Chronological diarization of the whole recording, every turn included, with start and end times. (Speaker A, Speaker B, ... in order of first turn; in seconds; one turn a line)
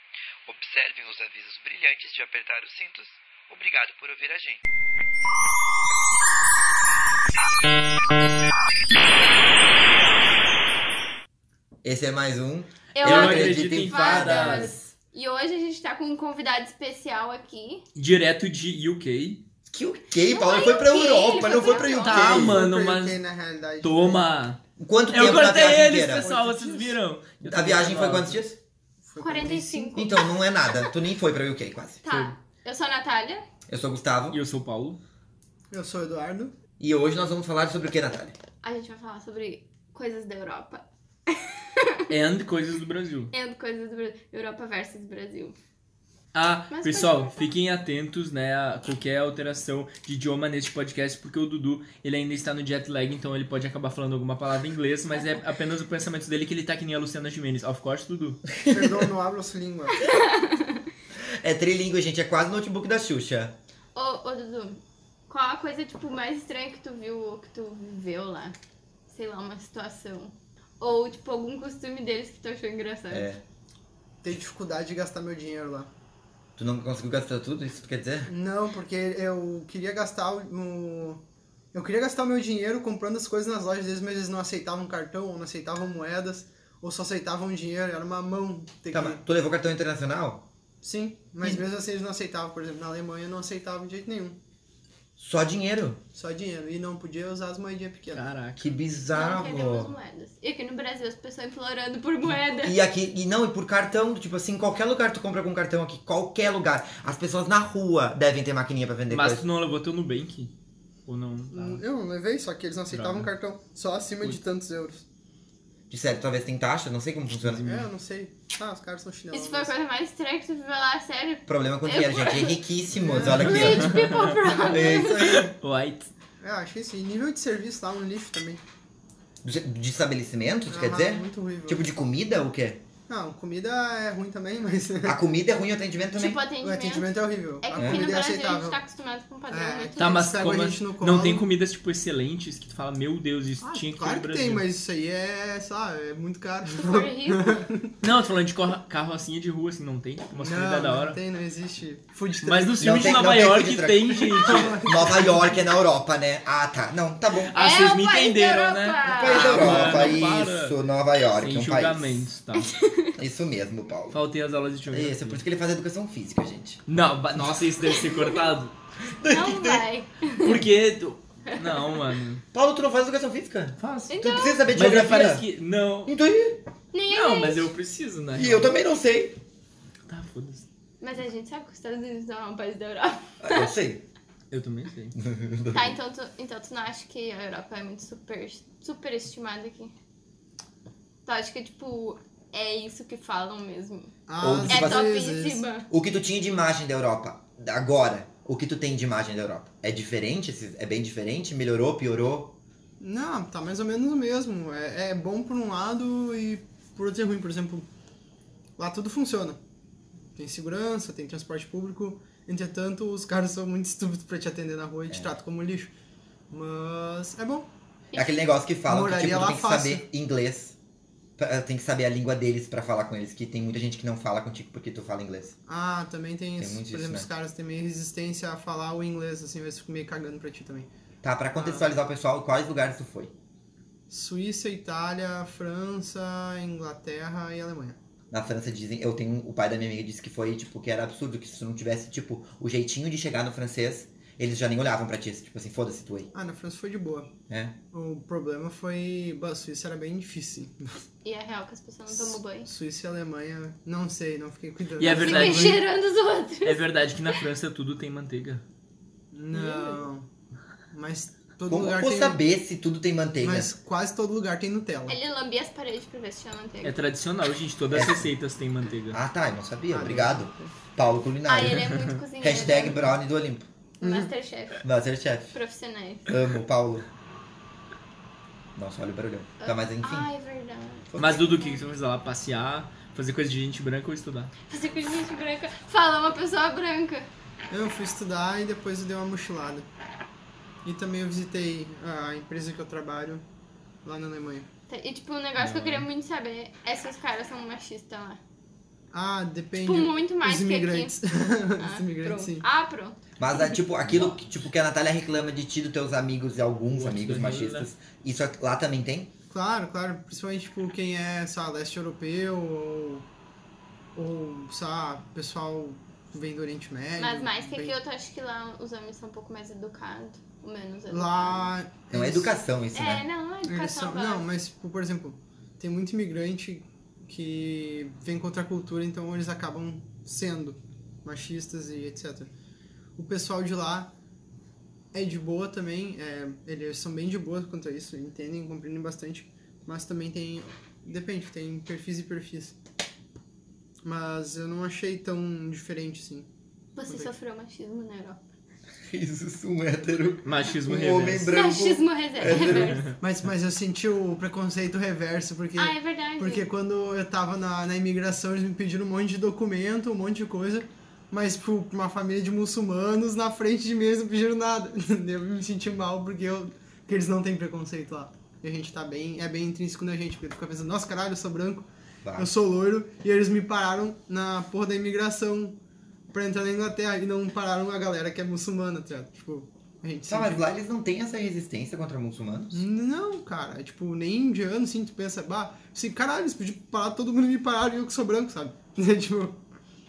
Speaker A: 0.5-4.6
Speaker B: 11.8-14.9
Speaker C: 12.9-17.8
Speaker D: 13.0-14.7
Speaker D: 17.9-19.4
Speaker B: 19.7-22.6
Speaker C: 20.2-22.2
Speaker D: 21.5-23.2
Speaker E: 22.1-24.2
Speaker D: 23.8-28.4
Speaker B: 24.8-26.2
Speaker E: 25.9-27.0
Speaker B: 27.4-28.6
Speaker E: 29.0-29.9
Speaker C: 29.2-30.3
Speaker B: 29.9-32.0
Speaker C: 32.0-33.4
Speaker D: 32.0-32.3
Speaker B: 33.7-34.4
Speaker D: 34.3-35.0
Speaker E: 35.7-36.5
Speaker B: 36.8-38.3
Speaker C: 38.6-42.0
Speaker D: 42.1-43.3
Speaker C: 43.3-45.6
Speaker D: 46.3-58.5
Speaker C: 46.7-47.5
Speaker E: 58.7-60.0
Speaker B: 58.7-59.0
Speaker C: 60.0-60.9
Speaker B: 61.4-63.5
Speaker C: 63.9-68.6
Speaker C: 69.1-73.3
Speaker B: 73.1-73.4
Speaker E: 74.2-75.9
Speaker B: 76.6-78.3
Speaker E: 78.2-81.2
Speaker E: 81.7-89.2
Speaker B: 88.9-90.4
Speaker E: 90.8-94.4
Speaker B: 95.2-96.0
Speaker E: 96.1-98.2
Speaker D: 98.1-98.7
Speaker B: 98.6-100.0
Speaker C: 99.1-102.8
Speaker B: 102.2-109.4
Speaker D: 109.1-110.5
Speaker D: 111.1-111.8
Speaker E: 111.5-115.0
Speaker D: 112.9-113.3
Speaker B: 115.9-117.8
Speaker D: 117.4-117.9
Speaker E: 117.6-119.7
Speaker C: 119.3-122.6
Speaker B: 121.5-124.0
Speaker E: 122.9-123.5
Speaker D: 123.3-126.1
Speaker C: 123.4-125.4
Speaker B: 124.6-125.5
Speaker E: 126.4-128.6
Speaker B: 129.4-132.8
Speaker E: 130.7-131.8
Speaker E: 133.1-135.2
Speaker B: 135.0-136.4
Speaker C: 136.1-140.2
Speaker E: 136.6-138.8
Speaker B: 137.8-138.0
Speaker E: 139.5-141.4
Speaker D: 140.0-144.6
Speaker E: 143.6-148.0
Speaker C: 146.7-147.6
Speaker D: 148.0-151.2
Speaker E: 150.3-153.3
Speaker D: 152.4-155.1
Speaker B: 152.8-157.5
Speaker E: 154.4-155.6
Speaker D: 157.4-160.8
Speaker C: 157.5-160.2
Speaker B: 159.1-162.2
Speaker D: 161.3-162.7
Speaker C: 162.5-163.1
Speaker B: 163.2-164.2
Speaker D: 164.1-165.4
Speaker B: 164.9-166.8
Speaker D: 166.9-168.7
Speaker C: 167.9-168.4
Speaker B: 169.0-169.8
Speaker C: 169.3-170.6
Speaker D: 170.4-172.4
Speaker C: 171.5-172.0
Speaker B: 172.5-175.4
Speaker D: 173.8-174.1
Speaker C: 174.1-174.7
Speaker D: 174.7-176.1
Speaker B: 176.1-176.6
Speaker C: 176.9-177.7
Speaker D: 177.1-178.7
Speaker B: 178.3-179.4
Speaker D: 180.1-180.7
Speaker C: 181.0-183.8
Speaker B: 183.4-184.0
Speaker D: 184.5-185.1
Speaker B: 185.1-186.0
Speaker C: 185.7-189.9
Speaker C: 191.2-194.1
Speaker E: 194.3-195.6
Speaker B: 194.4-195.1
Speaker C: 194.7-195.9
Speaker B: 195.9-202.6
Speaker E: 203.0-207.8
Speaker E: 208.8-209.6
Speaker E: 210.3-215.9
Speaker E: 216.5-217.7
Speaker C: 218.1-218.4
Speaker B: 218.1-220.7
Speaker E: 218.8-220.0
Speaker B: 221.4-225.6
Speaker E: 225.7-230.9
Speaker B: 226.6-227.3
Speaker B: 231.2-233.3
Speaker E: 231.6-231.9
Speaker E: 234.1-238.0
Speaker B: 238.3-246.3
Speaker E: 246.3-247.3
Speaker B: 247.5-247.8
Speaker E: 247.9-251.0
Speaker C: 251.2-252.7
Speaker E: 252.1-255.8
Speaker D: 255.0-255.8
Speaker C: 255.1-257.3
Speaker D: 256.6-258.6
Speaker E: 259.3-260.2
Speaker C: 259.5-260.0
Speaker E: 260.9-262.4
Speaker B: 261.7-263.7
Speaker E: 263.4-265.2
Speaker C: 265.1-266.9
Speaker D: 266.8-269.2
Speaker B: 267.9-268.3
Speaker B: 269.1-273.7
Speaker E: 269.9-270.7
Speaker C: 271.5-273.2
Speaker E: 274.0-274.3
Speaker C: 274.0-274.8
Speaker B: 274.8-275.6
Speaker C: 275.5-276.3
Speaker B: 276.3-277.1
Speaker B: 278.7-280.3
Speaker C: 279.6-281.8
Speaker B: 281.1-281.4
Speaker D: 281.2-284.5
Speaker C: 284.7-287.3
Speaker E: 287.7-289.9
Speaker E: 290.8-293.4
Speaker E: 294.0-294.7
Speaker C: 294.9-298.4
Speaker D: 295.6-296.1
Speaker E: 299.1-302.6
Speaker C: 299.8-301.1
Speaker C: 301.8-303.8
Speaker B: 303.4-309.3
Speaker D: 304.1-304.4
Speaker D: 306.9-307.9
Speaker E: 309.5-313.2
Speaker E: 314.1-317.9
Speaker C: 317.2-321.7
Speaker E: 321.1-322.6
Speaker B: 322.1-323.2
Speaker C: 322.9-324.5
Speaker E: 323.6-332.5
Speaker E: 333.1-334.1
Speaker E: 335.1-342.8
Speaker E: 344.0-346.5
Speaker C: 346.9-348.4
Speaker B: 349.1-353.0
Speaker D: 350.4-351.5
Speaker C: 351.5-353.1
Speaker D: 352.5-353.1
Speaker E: 353.2-375.8
Speaker C: 355.8-356.6
Speaker B: 372.2-372.5
Speaker E: 376.3-380.6
Speaker B: 380.3-382.8
Speaker E: 382.7-389.6